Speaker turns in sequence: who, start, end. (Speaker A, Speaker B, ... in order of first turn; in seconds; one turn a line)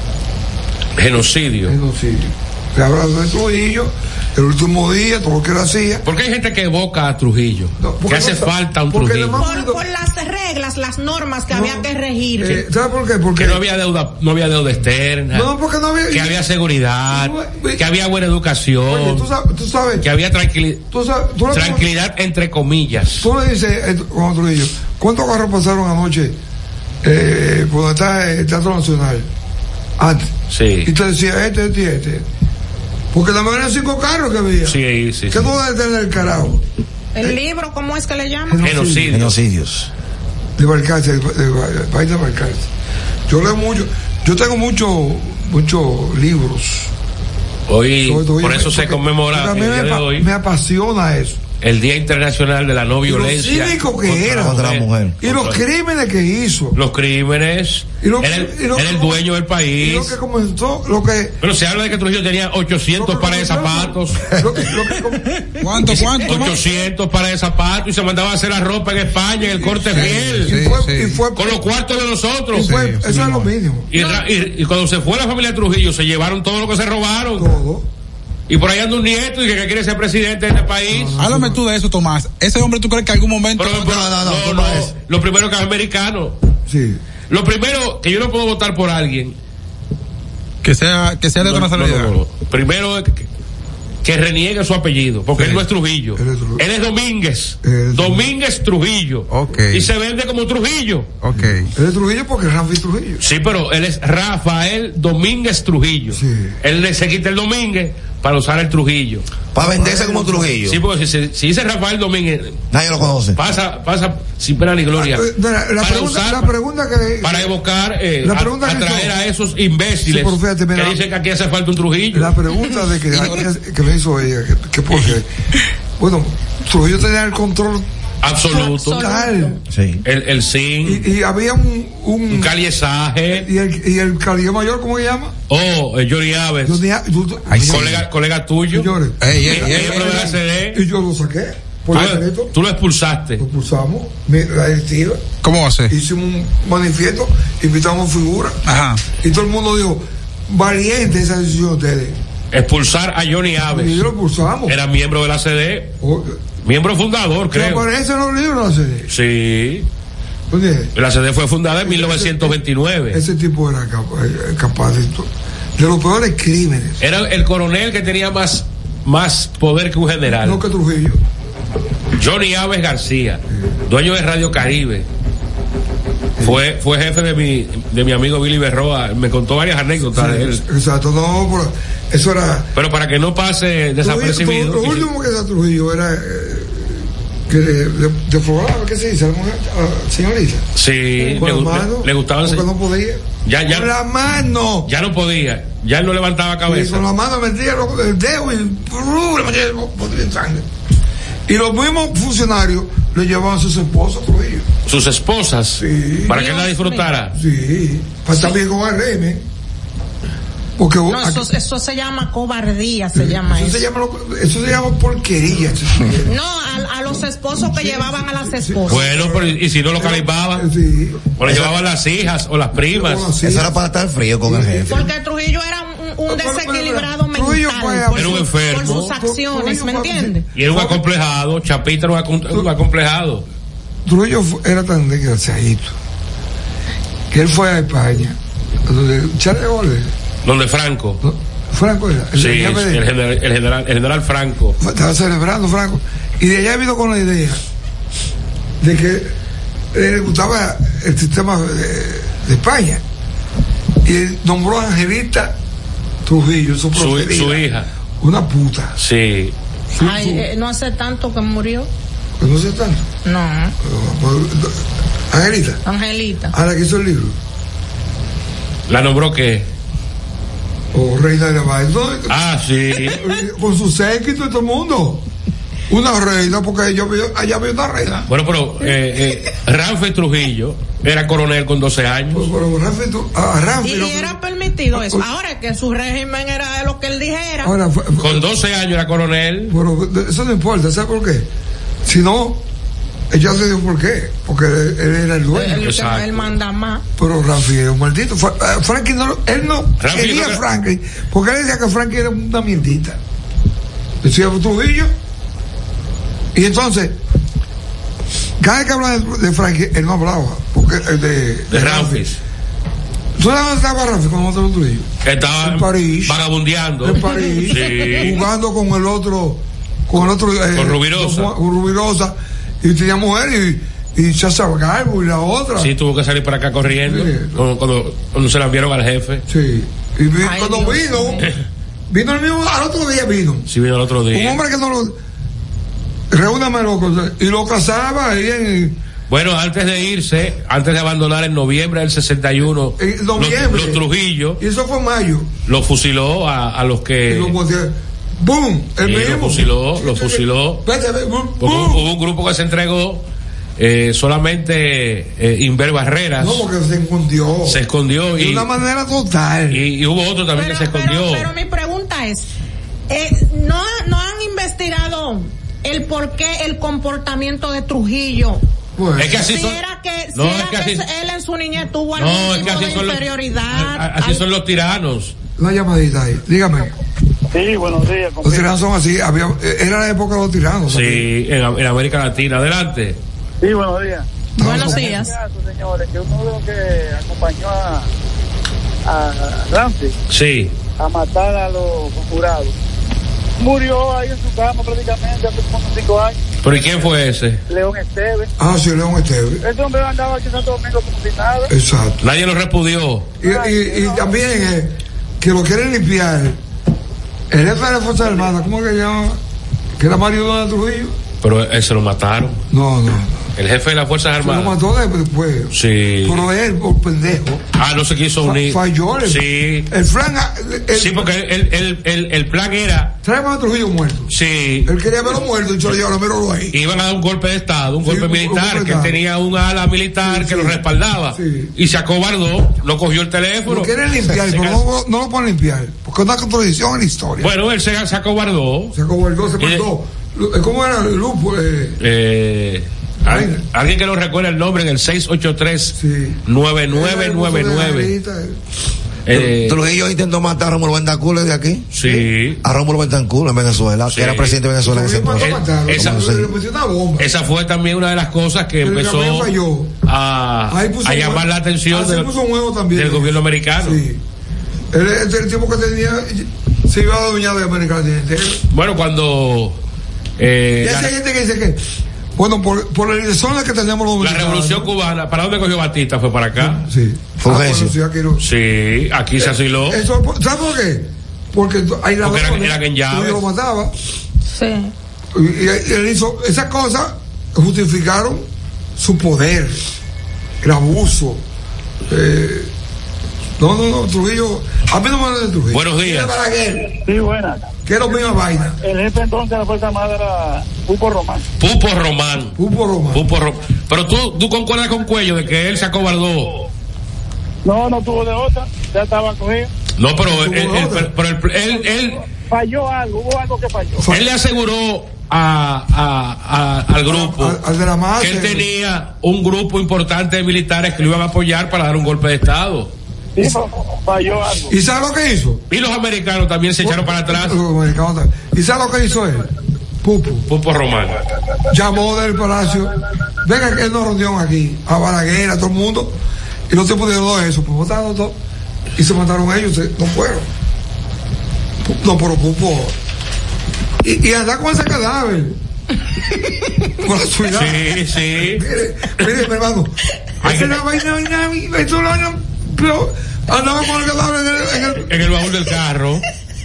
Speaker A: 1.0-1.8
Speaker B: 1.7-6.0
Speaker A: 6.0-9.4
Speaker B: 7.8-9.8
Speaker C: 9.4-12.6
Speaker B: 11.5-11.8
Speaker B: 12.4-13.6
Speaker A: 13.4-15.5
Speaker B: 15.3-16.4
Speaker A: 16.1-19.3
Speaker B: 17.1-17.8
Speaker B: 18.9-20.1
Speaker A: 20.0-20.9
Speaker B: 20.9-21.9
Speaker A: 21.5-23.3
Speaker B: 23.2-26.4
Speaker B: 27.0-29.3
Speaker B: 30.0-30.3
Speaker A: 30.5-30.9
Speaker B: 30.9-32.3
Speaker B: 33.1-34.8
Speaker A: 34.6-35.5
Speaker B: 35.3-36.6
Speaker C: 37.1-38.6
Speaker B: 38.5-39.2
Speaker A: 38.6-39.4
Speaker D: 39.1-39.9
Speaker B: 40.6-42.7
Speaker B: 43.3-46.9
Speaker A: 47.7-50.3
Speaker B: 48.0-51.4
Speaker A: 51.6-55.6
Speaker B: 53.1-54.6
Speaker D: 54.3-55.2
Speaker B: 55.2-56.8
Speaker A: 56.7-60.2
Speaker B: 58.0-59.2
Speaker B: 59.8-61.4
Speaker A: 61.4-64.3
Speaker B: 63.0-65.9
Speaker E: 65.6-66.6
Speaker A: 66.1-70.8
Speaker B: 69.4-71.6
Speaker E: 69.9-71.2
Speaker A: 71.3-72.8
Speaker B: 72.5-73.9
Speaker E: 72.6-73.5
Speaker A: 73.9-77.5
Speaker C: 74.0-74.2
Speaker B: 77.4-77.9
Speaker A: 78.5-81.2
Speaker B: 80.9-81.6
Speaker E: 81.2-83.8
Speaker A: 83.6-86.4
Speaker D: 83.8-84.9
Speaker B: 86.7-87.0
Speaker A: 87.3-89.4
Speaker E: 90.6-92.2
Speaker A: 91.4-93.3
Speaker A: 94.0-101.1
Speaker E: 95.4-95.6
Speaker B: 96.2-96.6
Speaker B: 97.6-98.3
Speaker E: 99.3-99.9
Speaker E: 101.2-101.7
Speaker B: 101.8-103.2
Speaker A: 103.2-109.2
Speaker B: 106.1-106.5
Speaker D: 109.5-110.8
Speaker B: 109.6-110.5
Speaker A: 110.7-112.6
Speaker D: 112.7-113.4
Speaker A: 113.3-116.5
Speaker B: 115.0-117.5
Speaker A: 117.2-122.4
Speaker B: 118.2-119.1
Speaker B: 120.1-121.0
Speaker B: 122.1-125.3
Speaker B: 126.0-127.9
Speaker A: 128.2-129.1
Speaker C: 128.5-129.6
Speaker B: 128.9-129.6
Speaker D: 129.7-130.0
Speaker A: 130.1-131.1
Speaker B: 130.8-132.5
Speaker A: 132.3-133.5
Speaker B: 133.3-135.3
Speaker A: 135.5-136.8
Speaker B: 136.7-138.1
Speaker E: 137.5-138.0
Speaker A: 137.6-138.9
Speaker B: 138.7-142.5
Speaker E: 139.2-140.3
Speaker A: 139.4-140.8
Speaker A: 141.9-143.4
Speaker B: 143.4-145.3
Speaker E: 145.4-145.9
Speaker B: 145.9-148.6
Speaker E: 148.7-149.0
Speaker B: 149.1-152.2
Speaker A: 152.5-154.1
Speaker B: 153.6-154.8
Speaker A: 154.7-155.9
Speaker B: 156.0-156.4
Speaker A: 156.6-157.8
Speaker B: 157.5-159.1
Speaker A: 159.1-159.9
Speaker B: 160.5-160.9
Speaker A: 160.9-163.2
Speaker B: 161.7-162.6
Speaker B: 163.1-167.0
Speaker A: 167.0-170.6
Speaker B: 170.3-171.2
Speaker A: 172.2-175.1
Speaker A: 176.4-180.6
Speaker B: 180.1-182.7
Speaker A: 182.8-185.1
Speaker B: 184.0-190.7
Speaker A: 190.8-192.7
Speaker B: 191.2-194.9
Speaker A: 193.4-193.9
Speaker A: 194.9-197.1
Speaker B: 196.7-200.7
Speaker B: 201.5-204.7
Speaker A: 204.9-207.3
Speaker B: 205.8-206.4
Speaker C: 206.3-207.1
Speaker B: 207.3-209.4
Speaker B: 210.8-211.5
Speaker C: 211.1-213.8
Speaker B: 213.2-216.3
Speaker C: 216.3-219.0
Speaker B: 217.5-221.7
Speaker A: 218.9-220.7
Speaker A: 221.3-223.3
Speaker B: 222.8-223.8
Speaker D: 223.4-225.1
Speaker B: 224.4-225.1
Speaker C: 224.9-230.4
Speaker B: 226.3-231.0
Speaker A: 228.1-229.1
Speaker A: 230.6-233.4
Speaker B: 234.1-235.9
Speaker B: 237.3-240.1
Speaker A: 240.4-241.2
Speaker B: 241.2-243.0
Speaker A: 242.3-244.8
Speaker B: 244.8-247.6
Speaker B: 248.8-249.3
Speaker B: 249.9-253.0
Speaker B: 254.0-255.6
Speaker B: 256.2-258.9
Speaker A: 256.9-257.9
Speaker A: 259.0-259.5
Speaker B: 259.9-260.4
Speaker C: 260.0-261.9
Speaker B: 262.4-263.1
Speaker C: 263.2-263.8
Speaker B: 263.8-265.8
Speaker C: 265.9-266.6
Speaker B: 266.5-267.4
Speaker A: 268.9-269.7
Speaker B: 270.9-272.4
Speaker A: 272.3-273.2
Speaker B: 273.0-275.2
Speaker B: 275.9-278.3
Speaker A: 278.3-282.5
Speaker B: 282.3-284.4
Speaker C: 283.8-287.7
Speaker B: 284.9-285.2
Speaker B: 287.6-288.5
Speaker A: 288.2-289.8
Speaker B: 289.7-291.5
Speaker B: 292.1-292.6
Speaker B: 293.3-295.9
Speaker C: 295.5-297.1
Speaker A: 295.8-296.5
Speaker B: 297.2-303.2
Speaker A: 300.0-300.6
Speaker B: 304.2-305.1
Speaker B: 306.5-307.2
Speaker B: 308.6-312.2
Speaker A: 311.7-312.4
Speaker B: 313.4-316.4
Speaker A: 315.2-318.5
Speaker B: 317.0-325.9
Speaker A: 320.7-321.5
Speaker A: 325.8-329.4
Speaker B: 327.1-327.6
Speaker B: 329.5-331.5
Speaker C: 330.4-331.4
Speaker B: 332.1-333.7
Speaker A: 333.7-334.6
Speaker B: 334.3-335.2
Speaker B: 336.3-339.0
Speaker A: 339.3-344.6
Speaker B: 343.0-344.0
Speaker B: 344.6-345.5
Speaker A: 345.7-347.6
Speaker B: 347.3-352.0
Speaker A: 349.0-350.8
Speaker A: 351.6-353.2
Speaker A: 353.8-356.7
Speaker B: 356.4-357.8
Speaker A: 357.6-358.7
Speaker B: 358.4-359.8
Speaker A: 359.7-361.5
Speaker C: 360.6-362.5
Speaker C: 363.1-368.6
Speaker B: 369.0-369.4
Speaker A: 369.2-369.8
Speaker C: 369.3-374.4
Speaker A: 370.3-371.1
Speaker A: 372.2-375.4
Speaker B: 375.6-376.9
Speaker F: 377.5-378.8
Speaker B: 378.4-381.3
Speaker A: 380.9-383.2
Speaker F: 383.6-388.1
Speaker B: 384.6-385.2
Speaker C: 384.6-385.3
Speaker F: 389.1-390.1
Speaker A: 390.3-390.8
Speaker F: 391.0-392.7
Speaker F: 393.6-396.4
Speaker A: 396.6-397.6
Speaker F: 397.7-398.5
Speaker B: 398.6-399.6
Speaker F: 399.6-401.7
Speaker B: 401.7-402.2
Speaker A: 402.2-403.3
Speaker F: 403.4-404.4
Speaker B: 403.4-406.6
Speaker B: 407.5-409.4
Speaker B: 410.0-411.2
Speaker A: 411.4-412.6
Speaker B: 412.7-413.5
Speaker A: 413.6-414.8
Speaker B: 414.4-415.7
Speaker A: 415.7-416.5
Speaker B: 416.2-417.6
Speaker A: 417.8-419.9
Speaker B: 418.4-421.3
Speaker A: 420.9-423.2
Speaker B: 423.2-424.3
Speaker A: 424.3-424.9
Speaker B: 424.9-426.8
Speaker A: 426.7-435.0
Speaker B: 428.0-429.2
Speaker B: 430.2-430.8
Speaker B: 431.3-431.7
Speaker B: 433.7-437.5
Speaker A: 437.4-439.0
Speaker B: 438.9-442.0
Speaker A: 439.6-439.9
Speaker A: 442.0-448.1
Speaker B: 443.2-443.6
Speaker B: 445.9-446.4
Speaker B: 446.9-448.6
Speaker A: 449.3-449.8
Speaker D: 449.4-451.9
Speaker A: 451.9-452.6
Speaker D: 452.6-456.5
Speaker A: 454.1-454.6
Speaker B: 454.8-457.3
Speaker A: 455.4-456.3
Speaker A: 457.2-459.5
Speaker B: 458.8-459.9
Speaker A: 460.1-462.4
Speaker B: 460.7-464.2
Speaker A: 462.9-464.0
Speaker B: 464.9-468.6
Speaker A: 468.7-469.8
Speaker A: 470.4-471.1
Speaker B: 470.8-471.8
Speaker B: 472.4-474.9
Speaker A: 474.2-476.8
Speaker B: 476.6-478.4
Speaker D: 477.4-477.9
Speaker A: 478.4-480.0
Speaker B: 479.9-483.9
Speaker A: 482.2-483.4
Speaker C: 484.5-484.9
Speaker B: 485.3-488.5
Speaker B: 489.0-489.8
Speaker B: 490.6-491.4
Speaker B: 492.1-492.7
Speaker B: 493.6-496.9
Speaker A: 495.7-496.4
Speaker F: 496.9-497.7
Speaker B: 497.9-498.8
Speaker F: 498.7-501.4
Speaker A: 501.6-502.6
Speaker B: 502.6-503.2
Speaker A: 503.1-506.6
Speaker F: 507.6-509.7
Speaker A: 510.0-512.2
Speaker B: 510.2-511.1
Speaker F: 512.4-514.1
Speaker A: 514.1-517.6
Speaker B: 517.0-518.6
Speaker A: 518.2-522.9
Speaker F: 523.4-524.7
Speaker B: 524.7-525.6
Speaker A: 525.7-527.6
Speaker B: 526.8-529.5
Speaker B: 530.0-530.5
Speaker A: 530.5-531.2
Speaker B: 531.7-536.2
Speaker B: 536.7-538.4
Speaker B: 539.0-540.5
Speaker B: 541.9-543.0
Speaker B: 544.0-545.6
Speaker B: 547.0-555.1
Speaker A: 547.5-548.6
Speaker A: 550.4-550.8
Speaker A: 555.0-556.2